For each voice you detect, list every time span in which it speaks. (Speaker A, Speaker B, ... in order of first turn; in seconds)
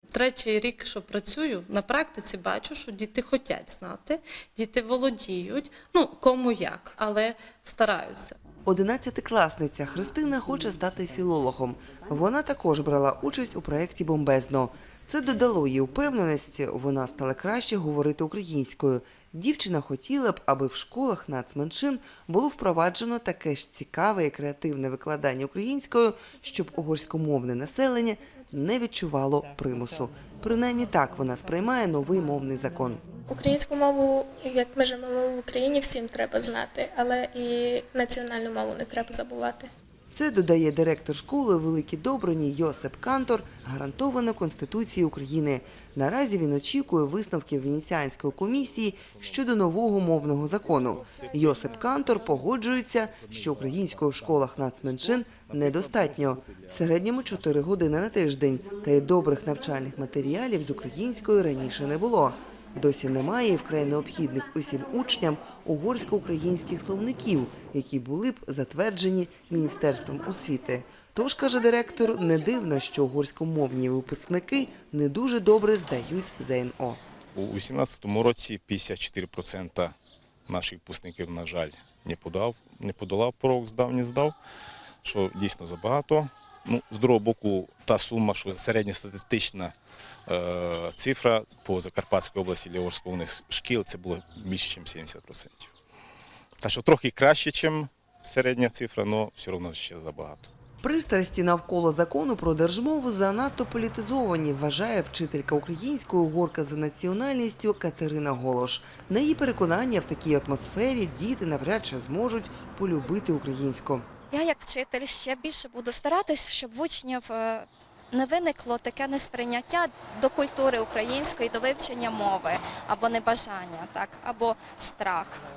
Speaker A: 0.1-8.4
Speaker B: 8.7-33.0, 40.1-77.0, 100.8-114.0
Speaker C: 33.3-39.7
Speaker D: 77.3-80.0, 80.5-84.4, 85.0-89.7, 90.3-95.7, 96.6-100.5
Speaker E: 114.3-125.4